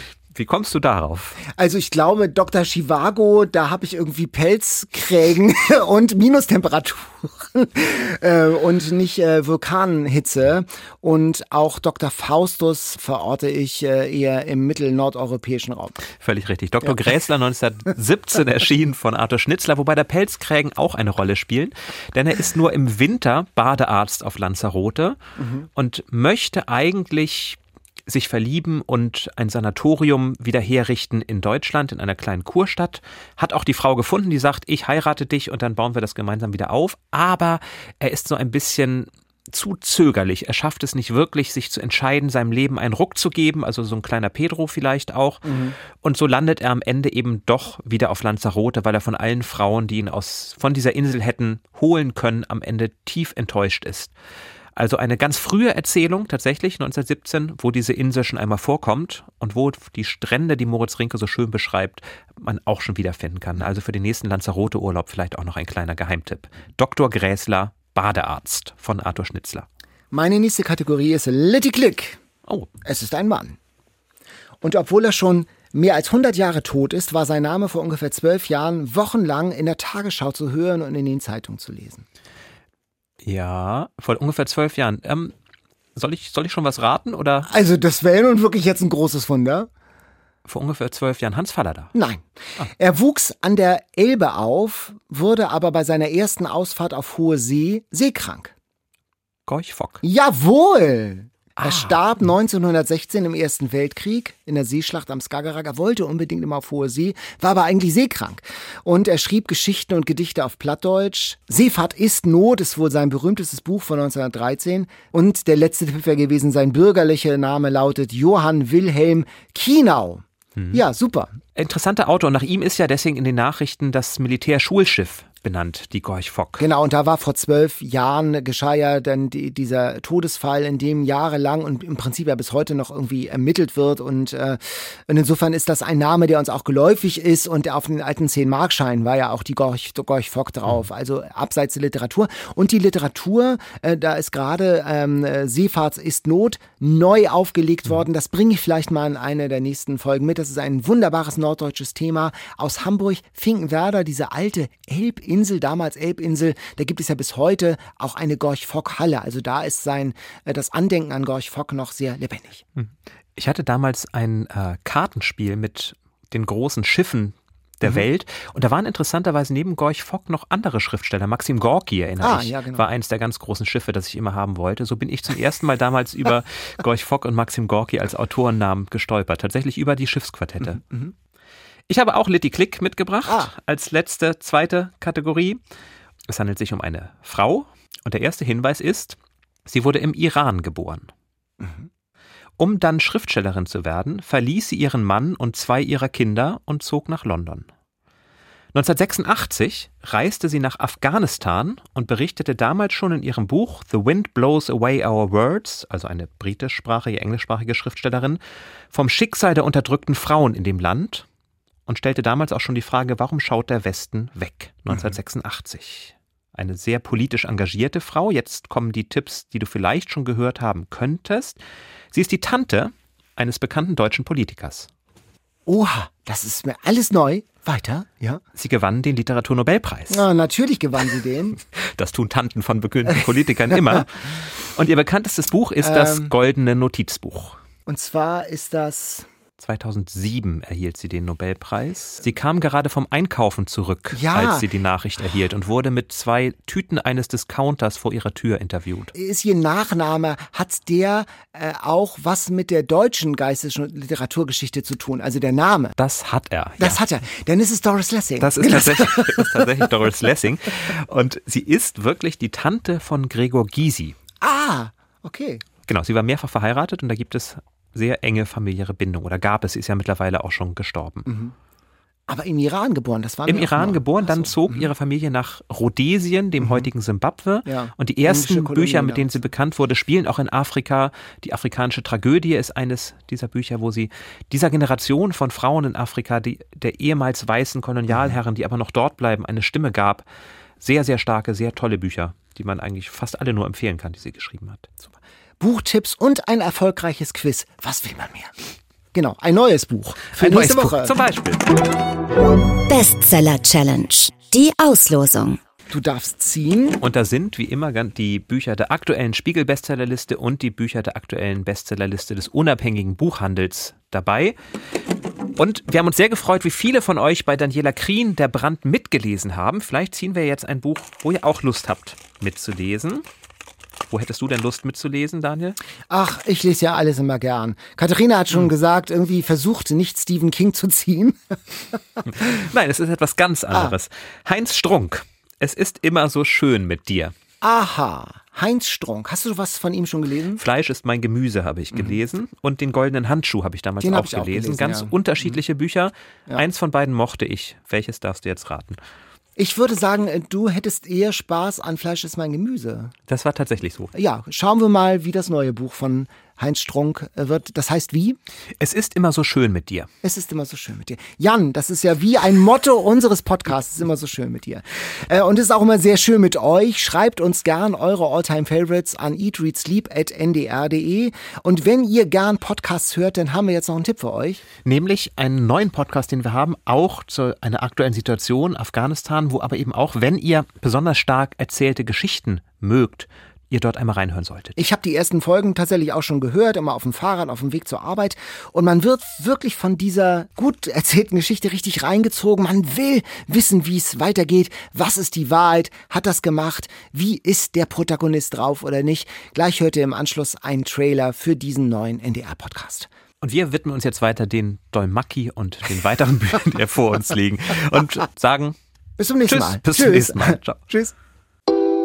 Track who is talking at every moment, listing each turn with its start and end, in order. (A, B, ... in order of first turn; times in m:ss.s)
0:00.3-0:01.4 A
0:01.5-0:16.0 B
0:16.2-0:25.2 A
0:25.4-0:25.7 B
0:25.8-0:54.1 A
0:45.4-0:45.8 B
0:54.8-1:09.7 A
1:10.1-1:12.2 B
1:12.8-1:13.6 B
1:14.6-1:22.1 B
1:23.2-1:25.3 A
1:26.0-1:27.5 A
1:27.5-1:29.7 B
1:30.5-1:31.9 A
1:31.9-1:38.5 B
1:39.5-1:40.0 A
1:40.0-2:01.4 B
1:41.6-1:42.0 A
2:00.6-2:00.8 A
2:01.6-2:06.7 A
2:06.6-2:42.6 B
2:42.8-3:00.8 A
2:52.2-2:52.9 B
3:00.6-3:01.1 B
3:01.9-3:05.6 A
3:03.2-3:03.5 B
3:06.3-3:11.1 A
3:11.6-3:11.9 B
3:12.6-3:17.7 A
3:18.7-3:28.4 A
3:28.9-3:31.3 A
3:31.9-3:41.6 A
3:42.1-3:44.9 A
3:45.7-3:48.4 B
3:48.6-3:50.2 A
3:50.1-3:51.6 B
3:51.8-3:57.6 A
3:55.8-3:56.3 B
3:57.9-3:59.3 B
3:59.6-4:09.1 A
4:04.1-4:04.7 B
4:09.1-4:15.9 B
4:16.0-4:17.0 A
4:16.8-4:19.5 B
4:18.4-4:24.2 A
4:24.4-4:25.6 B
4:25.9-4:31.3 A
4:31.3-4:31.5 B
4:32.3-4:34.9 B
4:33.5-4:50.2 A
4:36.6-4:36.9 B
4:37.7-4:39.5 B
4:50.8-4:55.1 A
4:55.6-4:58.6 B
4:59.1-5:01.1 B
5:00.4-5:01.6 A
5:02.9-5:05.6 C
5:05.9-5:07.0 B
5:07.0-5:14.6 A
5:15.6-5:23.2 A
5:24.1-5:25.8 A
5:26.1-5:32.0 B
5:32.3-5:37.4 A
5:37.6-5:40.6 B
5:40.6-5:49.0 A
5:41.9-5:42.2 B
5:44.0-5:45.6 B
5:49.6-5:53.1 B
5:53.3-5:54.1 A
5:54.1-5:58.4 B
5:58.8-6:00.1 A
6:00.2-6:14.6 B
6:14.8-6:24.8 A
6:24.8-6:43.1 B
6:43.4-6:48.8 A
6:49.2-6:51.1 B
6:49.5-6:50.8 A